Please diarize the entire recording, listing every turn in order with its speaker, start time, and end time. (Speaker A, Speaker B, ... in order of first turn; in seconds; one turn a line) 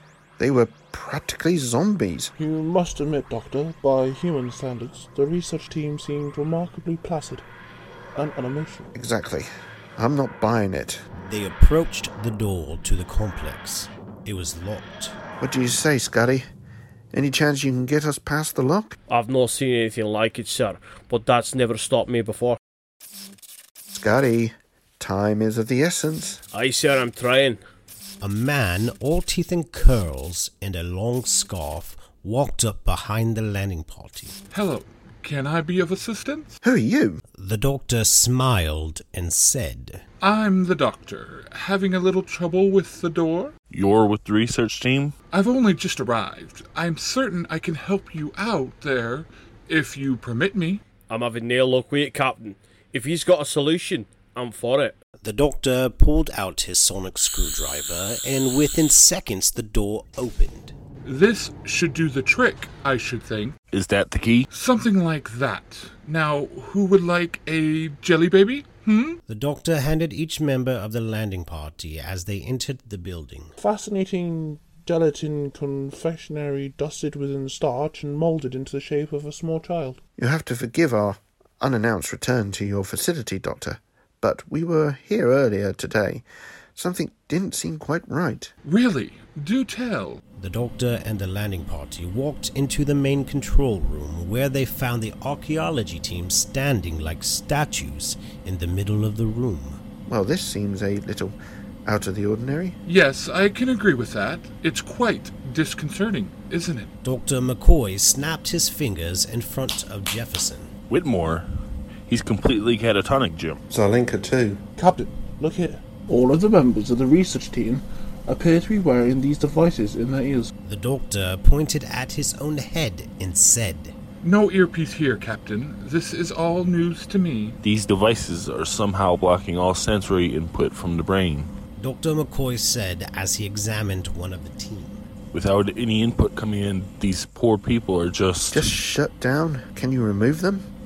Speaker A: 0.4-2.3
Speaker B: 2.4-7.4
Speaker B: 8.2-8.9
Speaker A: 8.9-11.0
Speaker C: 11.2-15.2
Speaker A: 15.4-16.4
Speaker A: 17.1-18.9
Speaker D: 19.1-22.6
Speaker A: 23.9-26.4
Speaker D: 26.5-27.6
Speaker C: 28.2-34.4
Speaker E: 34.5-36.5
Speaker A: 36.6-37.2
Speaker C: 37.4-40.0
Speaker E: 40.2-43.5
Speaker F: 43.7-45.1
Speaker E: 45.3-50.8
Speaker D: 51.1-55.0
Speaker C: 55.2-60.7
Speaker E: 61.0-63.5
Speaker F: 63.7-64.5
Speaker E: 64.5-69.2
Speaker C: 69.3-73.5
Speaker B: 73.6-80.0
Speaker A: 80.2-86.2
Speaker A: 86.8-88.5
Speaker E: 88.6-90.2
Speaker C: 90.4-99.8
Speaker A: 100.0-102.8
Speaker E: 102.8-106.9
Speaker C: 107.0-110.7
Speaker F: 110.9-111.5
Speaker F: 112.1-113.6
Speaker A: 113.7-114.6
Speaker B: 114.8-120.5
Speaker C: 120.6-123.9
Speaker E: 124.2-127.5
Speaker F: 127.6-131.5
Speaker C: 131.8-135.0
Speaker F: 135.3-138.7
Speaker A: 138.5-140.6